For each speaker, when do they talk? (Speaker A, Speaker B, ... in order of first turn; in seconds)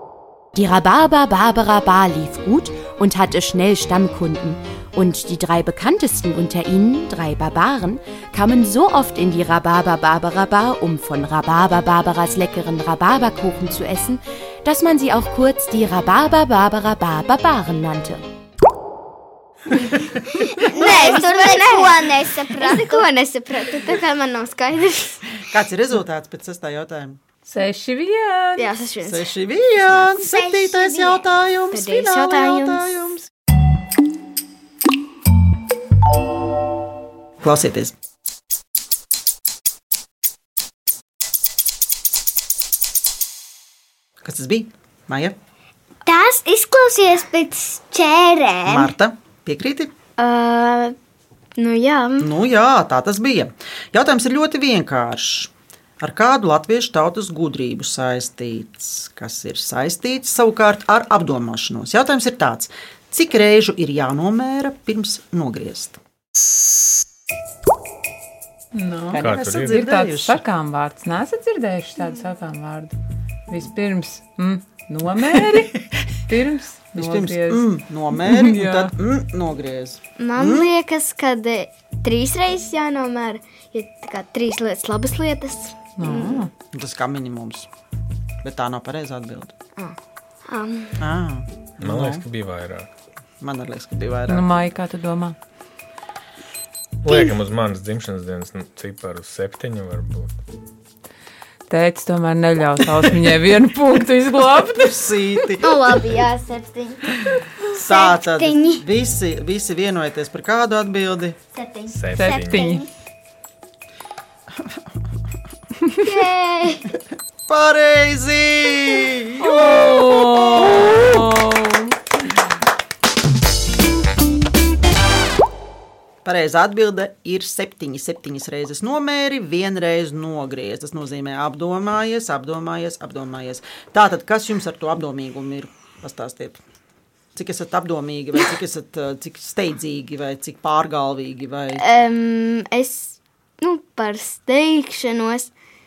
Speaker A: 0.5-18.2
Speaker B: 19.8-20.0, 20.8-25.4, 28.6-29.3, 31.7-33.1, 50.2-51.0, 51.6-52.3, 80.2-86.4, 90.5-91.0, 105.6-107.1, 111.5-112.0, 116.0-116.9, 141.8-145.5
Speaker C: 20.4-23.1, 30.1-31.2, 46.0-48.9, 107.8-108.8, 112.2-112.8
Speaker D: 25.4-27.2, 29.0-33.3, 37.4-37.9, 44.2-45.4, 48.7-49.9, 52.2-66.0, 69.1-70.4, 76.9-80.7, 86.0-87.7, 88.4-89.6, 91.0-92.2, 93.4-94.5, 104.5-105.8, 107.7-111.4, 117.5-119.6, 126.2-136.6, 137.3-141.8
Speaker E: 27.4-28.7, 68.7-73.0, 73.5-78.9, 86.0-86.5, 94.3-95.3, 101.7-104.9, 112.1-112.8, 119.4-121.9
Speaker F: 69.2-69.8, 91.8-92.9, 97.0-100.3, 111.9-112.7